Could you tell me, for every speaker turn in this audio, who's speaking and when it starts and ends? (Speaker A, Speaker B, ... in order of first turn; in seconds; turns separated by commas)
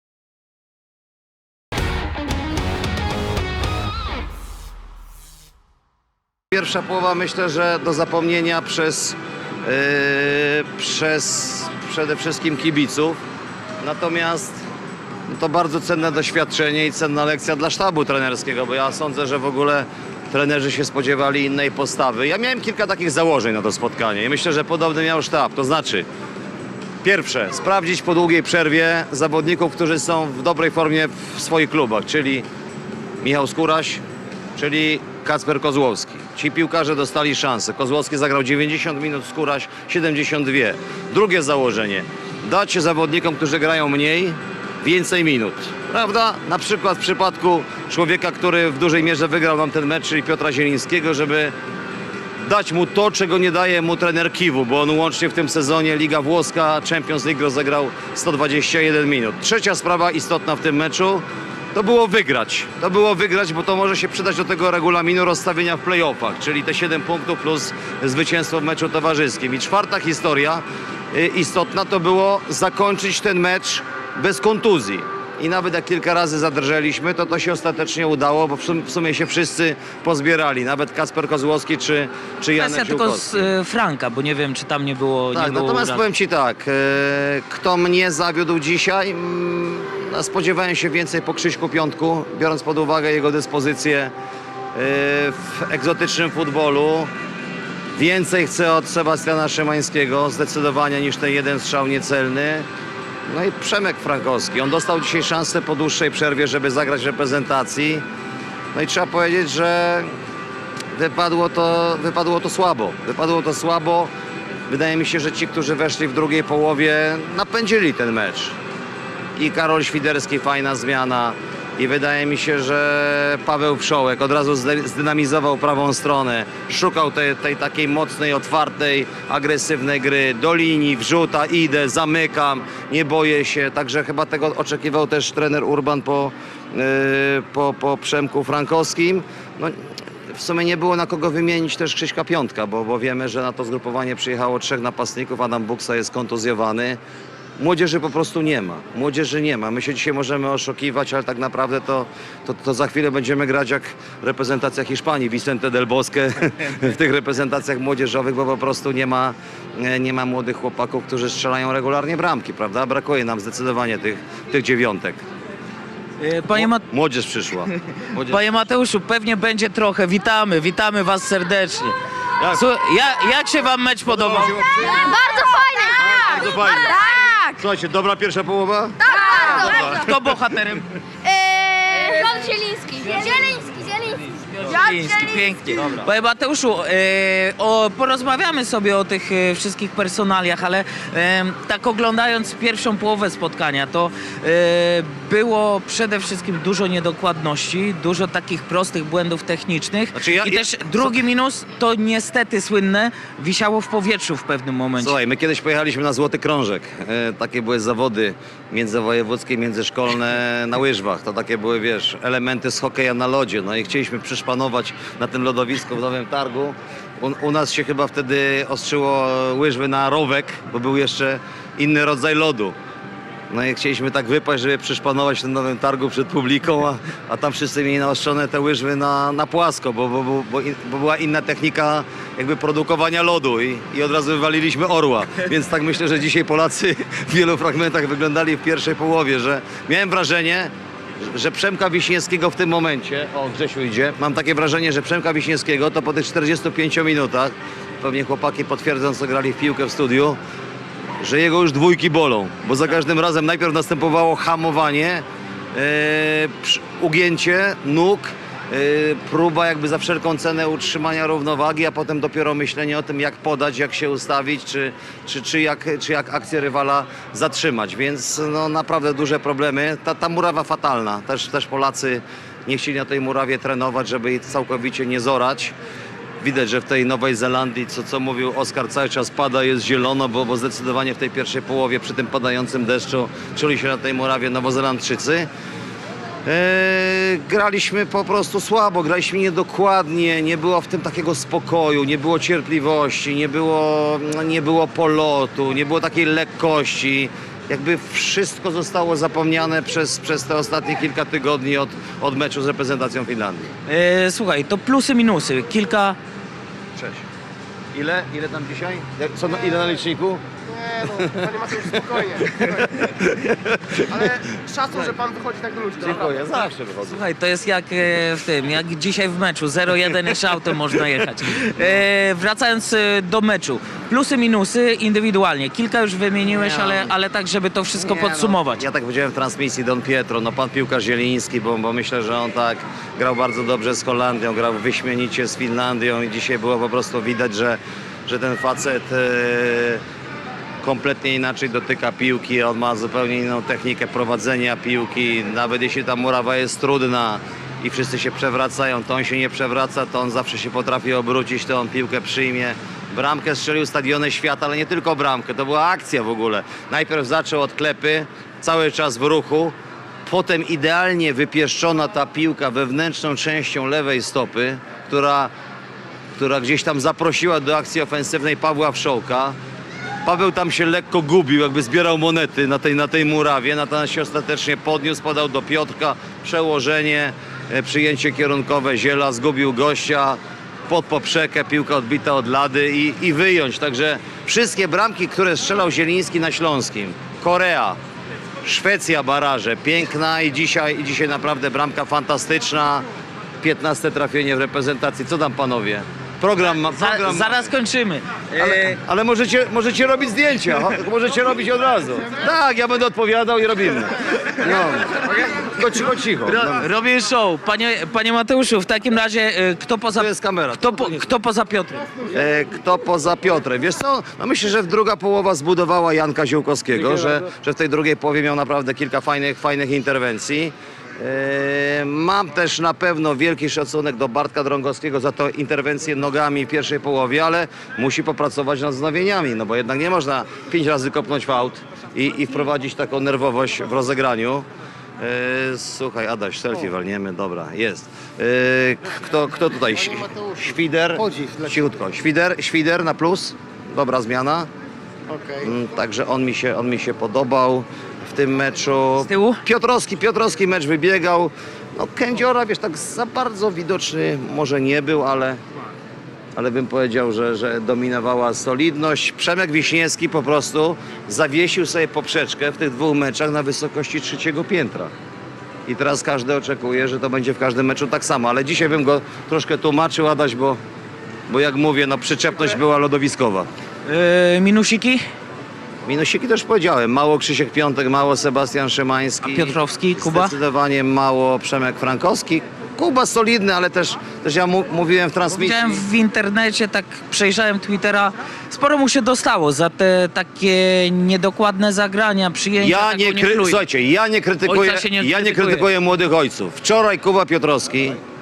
Speaker A: 6.5-13.2, Speaker A: 13.8-14.6, Speaker A: 15.3-26.1, Speaker A: 27.0-32.5, Speaker A: 33.2-34.0, Speaker A: 34.6-51.5, Speaker A: 52.4-83.5, Speaker B: 82.6-86.0, Speaker A: 85.3-94.1, Speaker A: 94.8-97.1, Speaker A: 98.0-102.7, Speaker A: 103.3-108.0, Speaker A: 108.7-110.1, Speaker A: 111.0-114.1, Speaker A: 114.7-118.5, Speaker A: 119.4-139.8, Speaker A: 140.3-147.0, Speaker A: 147.6-165.2, Speaker B: 166.2-166.8, Speaker A: 166.5-168.4, Speaker B: 168.1-171.9, Speaker A: 172.4-172.6, Speaker B: 172.5-174.9, Speaker A: 174.1-180.4, Speaker C: 174.8-177.6, Speaker C: 179.0-180.1, Speaker B: 179.1-180.9, Speaker C: 181.2-185.5, Speaker B: 181.9-182.3, Speaker B: 183.0-183.6, Speaker B: 184.3-205.1, Speaker A: 185.7-186.1, Speaker A: 200.1-201.2, Speaker A: 205.0-222.8, Speaker A: 223.5-250.4, Speaker A: 251.2-255.2, Speaker A: 255.8-275.8, Speaker A: 276.4-285.5, Speaker A: 286.4-303.7, Speaker B: 303.9-306.2, Speaker A: 307.0-307.2, Speaker A: 307.9-310.4, Speaker D: 310.9-312.7, Speaker A: 310.9-315.2, Speaker D: 314.1-316.2, Speaker A: 315.9-317.2, Speaker B: 317.1-328.8, Speaker A: 326.4-327.1, Speaker A: 328.0-340.0, Speaker A: 340.8-365.5, Speaker A: 366.4-369.6, Speaker A: 370.2-388.0, Speaker A: 388.6-393.1, Speaker A: 393.6-397.7, Speaker B: 396.8-399.0, Speaker A: 398.6-406.9, Speaker B: 406.5-412.1, Speaker A: 410.1-411.3, Speaker A: 412.3-434.6, Speaker A: 435.2-444.7, Speaker D: 445.3-445.6, Speaker A: 445.6-455.6, Speaker B: 449.2-449.6, Speaker A: 456.6-465.1, Speaker A: 465.9-470.8, Speaker A: 471.5-473.7, Speaker B: 474.1-475.2, Speaker A: 476.1-486.1, Speaker B: 479.4-480.6, Speaker B: 485.5-493.8, Speaker A: 492.8-498.2, Speaker B: 494.6-495.9